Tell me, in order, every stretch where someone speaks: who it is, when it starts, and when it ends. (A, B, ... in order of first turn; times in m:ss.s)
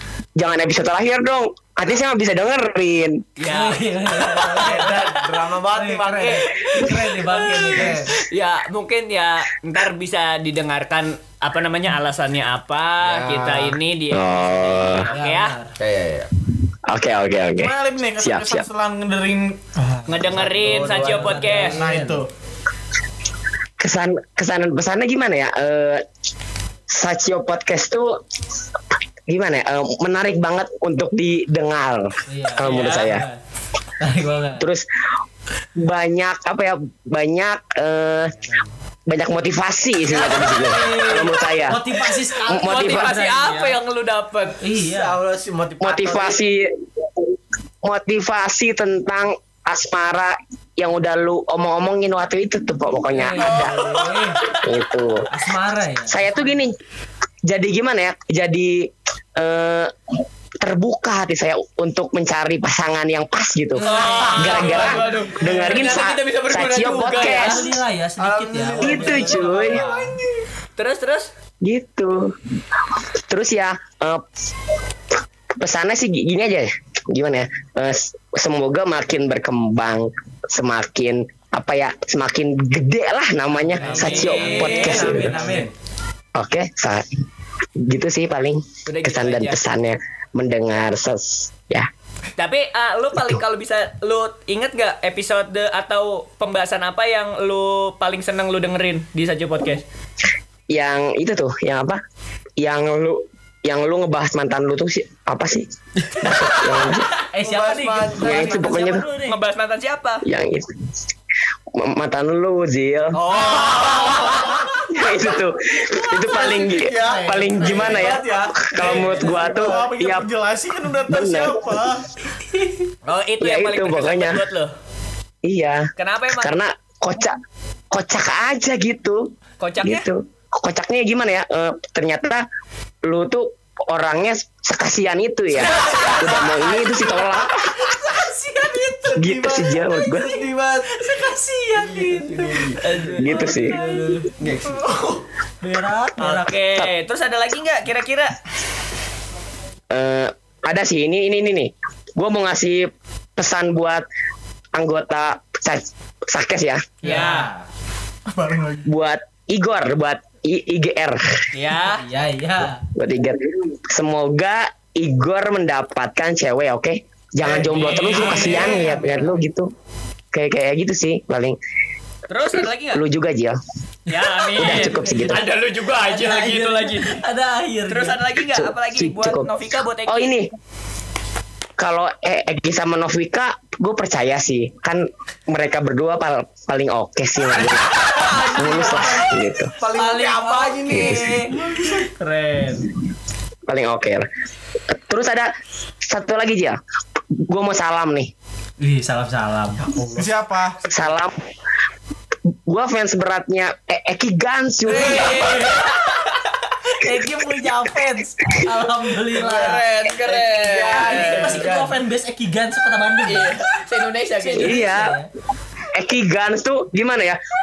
0:00.4-0:03.3 A
0:03.4-0:05.2 B
0:03.5-0:05.0 C
0:04.4-0:06.5 D
0:05.7-0:08.1 C
0:06.2-0:15.5 B
0:07.7-0:08.1 D
0:13.0-0:13.8 D
0:14.1-0:15.1 A
0:15.1-0:15.7 C
0:15.8-0:16.3 D
0:16.9-0:18.6 A
0:17.6-0:20.0 E
0:20.1-0:21.8 B
0:20.2-0:21.7 D
0:20.7-0:22.2 C
0:21.7-0:22.3 E
0:23.8-0:26.0 A
0:26.9-0:28.2 A
0:29.3-0:33.2 A
0:32.3-0:33.4 C
0:32.6-0:33.1 B
0:34.0-0:34.7 C
0:34.6-0:34.8 A
0:35.8-0:38.4 A
0:39.1-0:41.8 A
0:40.1-0:43.8 C
0:40.8-0:41.1 B
0:42.0-0:44.6 B
0:42.4-0:43.1 A
0:44.6-0:45.2 C
0:44.8-0:46.4 D
0:45.8-0:47.2 A
0:47.8-0:53.9 A
0:53.1-0:54.6 C
0:53.4-0:54.2 B
0:54.5-0:55.3 A
0:55.3-0:56.2 C
0:56.1-0:56.7 A
0:57.5-0:59.9 A
1:00.6-1:07.7 A
1:03.8-1:05.0 C
1:03.8-1:07.6 B
1:07.0-1:10.1 C
1:08.2-1:10.2 D
1:08.8-1:09.8 A
1:10.8-1:11.3 B
1:11.6-1:12.3 A
1:13.3-1:14.2 A
1:15.6-1:25.3 A
1:23.7-1:25.7 C
1:23.8-1:25.3 B
1:25.0-1:25.7 D
1:26.4-1:27.1 A
1:27.8-1:31.9 A
1:28.8-1:29.6 B
1:32.4-1:39.8 B
1:40.7-1:42.0 A
1:42.6-1:45.7 A
1:46.2-1:47.1 A
1:47.3-1:49.4 C
1:47.4-1:48.9 D
1:48.2-1:49.0 A
1:49.2-1:50.2 B
1:50.2-1:50.7 A
1:51.7-1:53.2 A
1:53.2-1:54.7 D
1:53.3-1:53.8 B
1:53.6-1:53.8 E
1:54.9-2:00.3 A
1:56.1-1:59.8 D
1:57.0-1:58.0 C
1:58.8-2:02.0 E
1:58.8-1:59.3 B
2:01.1-2:01.8 A
2:03.0-2:04.7 B
2:03.4-2:04.4 A
2:05.4-2:05.9 A
2:06.0-2:06.5 B
2:06.4-2:07.4 A
2:07.9-2:09.2 A
2:09.6-2:10.0 B
2:09.8-2:12.4 A
2:13.0-2:17.7 A
2:15.7-2:16.5 B
2:15.8-2:16.4 C
2:17.8-2:19.2 C
2:19.1-2:21.0 D
2:19.1-2:20.4 A
2:20.9-2:24.3 C
2:21.7-2:23.0 D
2:22.8-2:23.9 B
2:23.2-2:23.8 A
2:24.4-2:25.0 D
2:25.6-2:26.5 C
2:26.2-2:28.4 B
2:29.9-2:34.0 A
2:34.7-2:36.9 A
2:37.0-2:37.5 B
2:37.0-2:37.6 C
2:38.3-2:38.9 E
2:38.8-2:41.2 A
2:41.5-2:42.0 B
2:41.8-2:42.8 C
2:42.9-2:49.7 A
2:47.6-2:49.0 E
2:47.6-2:48.9 B
2:47.9-2:49.0 C
2:50.3-2:51.6 A
2:52.3-2:53.0 B
2:52.9-2:53.6 A
2:54.1-2:57.2 B
2:54.5-2:55.4 A
2:54.5-2:58.2 C
2:57.9-3:00.4 B
2:58.5-2:59.5 A
3:00.1-3:00.5 A
3:01.8-3:09.7 A
3:08.0-3:09.3 B
3:08.6-3:11.5 D
3:10.0-3:10.8 B
3:10.1-3:12.8 C
3:10.9-3:11.2 A
3:13.7-3:14.3 A
3:15.0-3:15.5 A
3:16.1-3:16.8 A
3:17.4-3:18.3 A
3:18.8-3:19.8 C
3:20.0-3:20.3 D
3:20.1-3:20.8 E
3:20.9-3:21.4 A
3:22.7-3:25.5 A
3:24.9-3:25.9 C
3:24.9-3:26.4 B
3:26.9-3:29.8 C
3:29.3-3:31.7 B
3:29.4-3:31.9 D
3:31.0-3:33.6 C
3:33.2-3:34.9 B
3:34.4-3:35.3 C
3:34.6-3:35.2 A
3:35.9-3:37.4 A